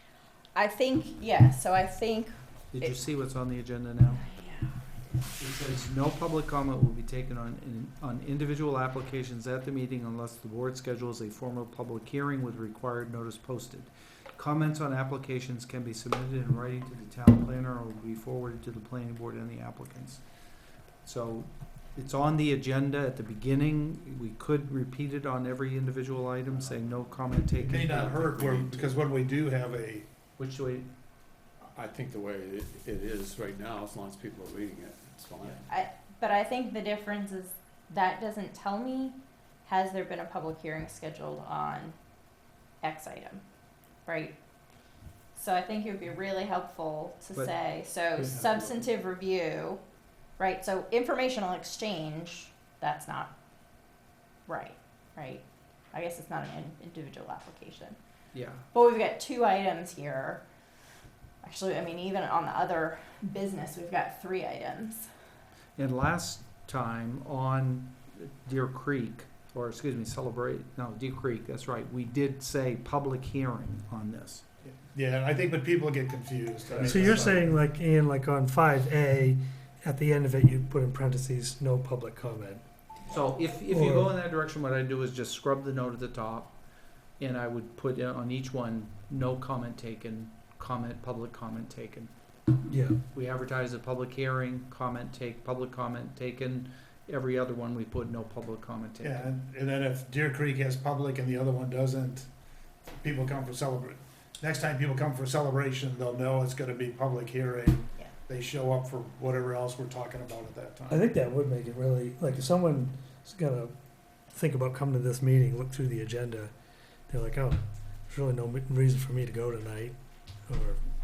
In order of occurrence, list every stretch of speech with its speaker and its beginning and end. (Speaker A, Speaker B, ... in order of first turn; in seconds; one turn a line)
Speaker A: 0.6-3.1
Speaker B: 2.7-4.2
Speaker A: 4.1-5.2
Speaker B: 5.4-20.2
Speaker B: 21.0-28.4
Speaker C: 26.5-29.0
Speaker D: 27.6-30.1
Speaker B: 30.4-30.9
Speaker C: 31.6-35.7
Speaker A: 35.7-42.0
Speaker A: 42.8-43.4
Speaker A: 44.0-44.3
Speaker A: 45.4-49.8
Speaker C: 48.2-48.9
Speaker A: 50.4-53.3
Speaker A: 54.5-58.0
Speaker B: 58.3-58.7
Speaker A: 58.7-60.5
Speaker A: 61.4-65.1
Speaker B: 65.8-74.5
Speaker D: 74.7-77.5
Speaker B: 76.7-77.4
Speaker E: 76.9-82.6
Speaker B: 83.1-86.5
Speaker E: 83.7-84.1
Speaker B: 87.2-92.1
Speaker E: 92.7-93.0
Speaker B: 93.1-99.3
Speaker D: 99.0-102.3
Speaker D: 103.0-111.0
Speaker E: 110.9-113.7
Speaker E: 114.3-116.5
Speaker E: 117.1-120.8